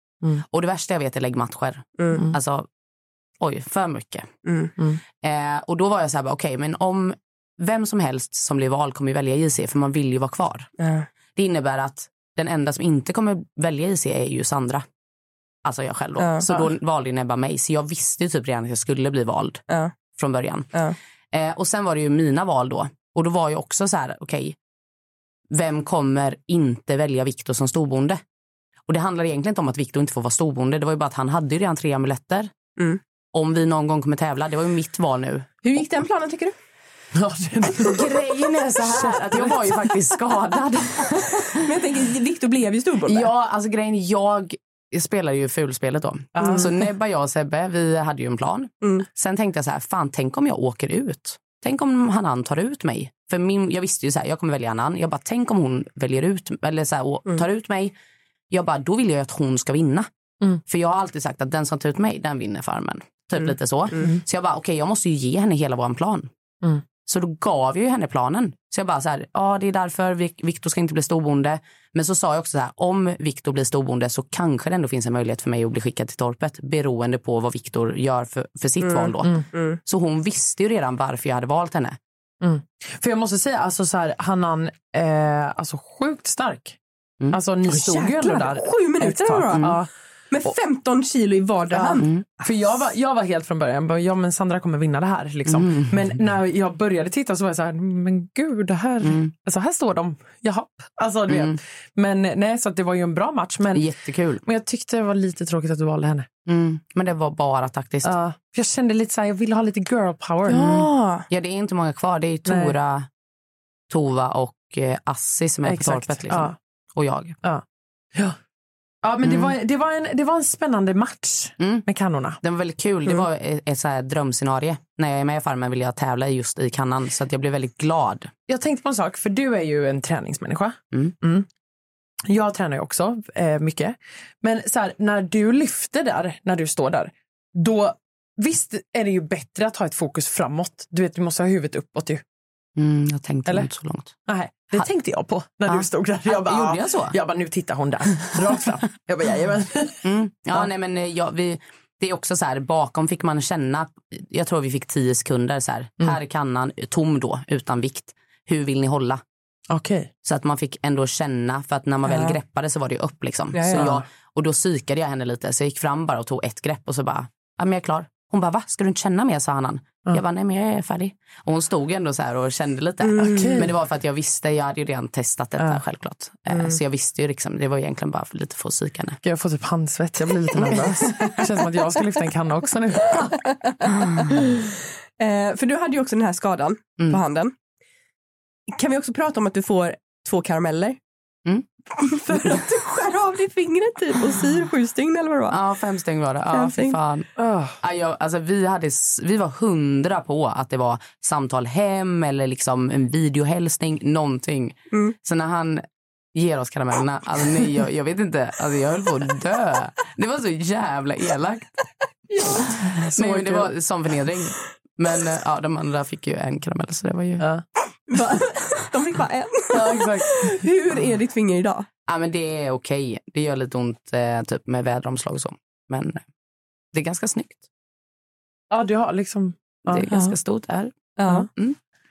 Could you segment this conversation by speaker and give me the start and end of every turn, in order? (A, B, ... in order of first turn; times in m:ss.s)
0:00.4-0:02.7 A
0:02.0-0:02.3 B
0:03.4-0:04.3 A
0:04.4-0:04.7 B
0:05.2-0:10.7 A
0:10.8-0:11.1 B
0:11.4-0:14.8 A
0:15.6-0:19.6 A
0:16.2-0:16.6 B
0:19.7-0:19.9 B
0:20.2-0:20.7 A
0:21.3-0:24.6 A
0:25.5-0:28.2 A
0:28.9-0:32.5 A
0:33.3-0:35.5 A
0:35.6-0:36.5 B
0:37.1-0:38.1 C
0:37.8-0:41.6 A
0:38.8-0:39.8 C
0:41.3-0:43.3 B
0:43.1-0:57.9 A
0:46.4-0:46.7 C
0:58.5-1:00.1 A
1:00.7-1:06.3 A
1:07.1-1:22.0 A
1:18.8-1:19.8 B
1:22.4-1:26.8 C
1:27.3-1:29.9 C
1:27.7-1:29.8 B
1:30.3-1:32.7 B
1:31.7-1:43.9 C
1:35.5-1:36.0 A
1:39.0-1:39.3 A
1:41.3-1:41.6 A
1:43.7-1:44.4 A
1:44.4-1:46.3 C
1:46.5-1:48.1 A
1:48.0-1:50.8 C
1:50.5-1:51.3 B
1:51.3-1:53.1 A
1:52.5-1:52.8 C
1:53.9-1:57.4 A
1:55.6-1:56.6 C
1:59.0-2:02.4 C
1:59.2-1:59.5 A
2:01.6-2:01.9 A
2:02.4-2:08.3 A
2:08.5-2:11.5 C
2:12.3-2:22.2 C
2:22.8-2:24.2 A
2:24.3-2:30.6 C
2:25.7-2:27.2 A
2:30.0-2:39.2 A
2:39.7-2:40.1 C
2:40.2-2:59.2 A
2:42.1-2:42.4 B
2:43.5-2:44.0 B
2:53.0-2:53.7 B
2:53.2-2:53.7 C
2:59.2-3:03.5 C
3:00.7-3:01.4 A
3:03.7-3:04.3 B
3:05.2-3:07.5 B
3:08.7-3:11.0 B
3:12.0-3:15.6 B
3:15.5-3:25.8 A
3:16.5-3:17.0 B
3:17.4-3:17.8 C
3:26.3-3:31.7 A
3:32.7-3:37.5 A
3:33.0-3:33.7 C
3:38.1-3:41.9 B
3:39.8-3:40.5 C
3:42.1-3:46.2 A
3:46.9-3:47.6 A
3:48.7-3:50.1 C
3:49.9-3:50.9 A
3:51.2-3:51.5 B